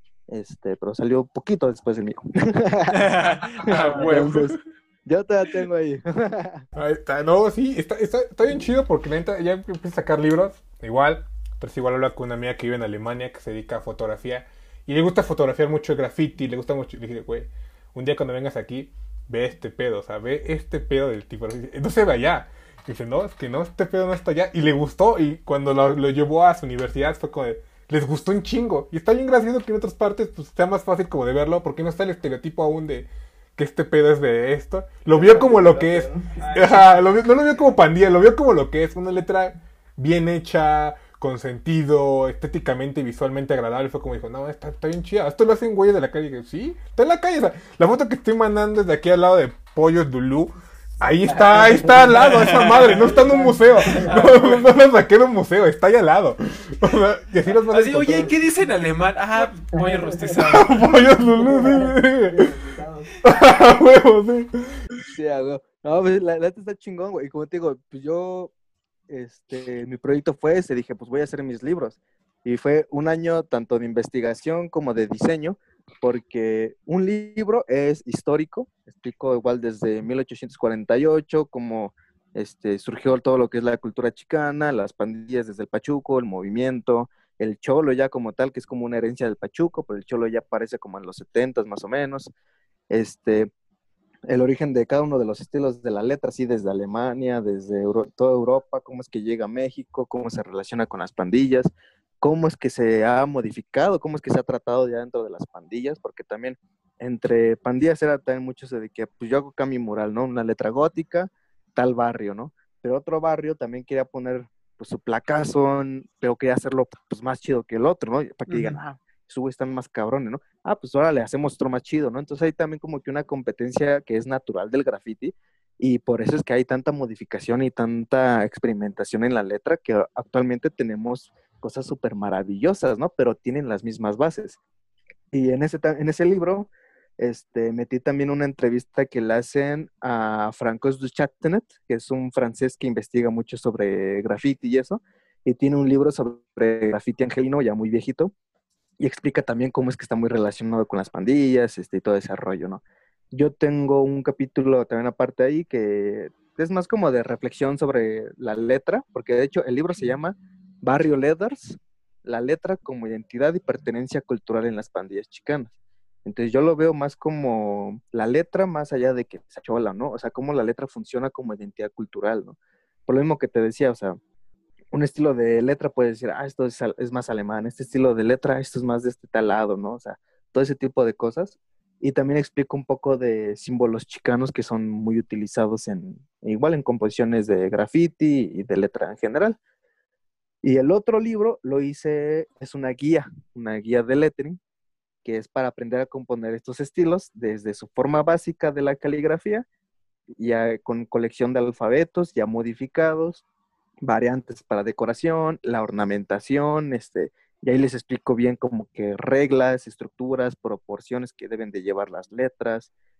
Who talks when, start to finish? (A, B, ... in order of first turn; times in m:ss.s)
0:00.3-0:03.1 A
0:02.9-0:04.6 B
0:03.6-0:06.6 A
0:06.7-0:58.3 C
0:52.2-0:53.1 B
0:53.9-0:54.5 B
0:57.7-1:00.7 B
1:00.4-1:02.6 C
1:03.2-1:04.8 C
1:05.1-1:08.5 A
1:09.1-1:32.3 A
1:32.9-1:33.5 A
1:34.3-2:14.6 A
1:58.5-1:58.8 B
2:15.3-2:28.3 A
2:29.0-2:45.7 A
2:46.2-2:54.2 A
2:54.9-3:09.6 A
3:10.6-3:14.6 A
3:15.2-3:19.6 A
3:20.4-3:23.4 A
3:24.0-3:32.9 A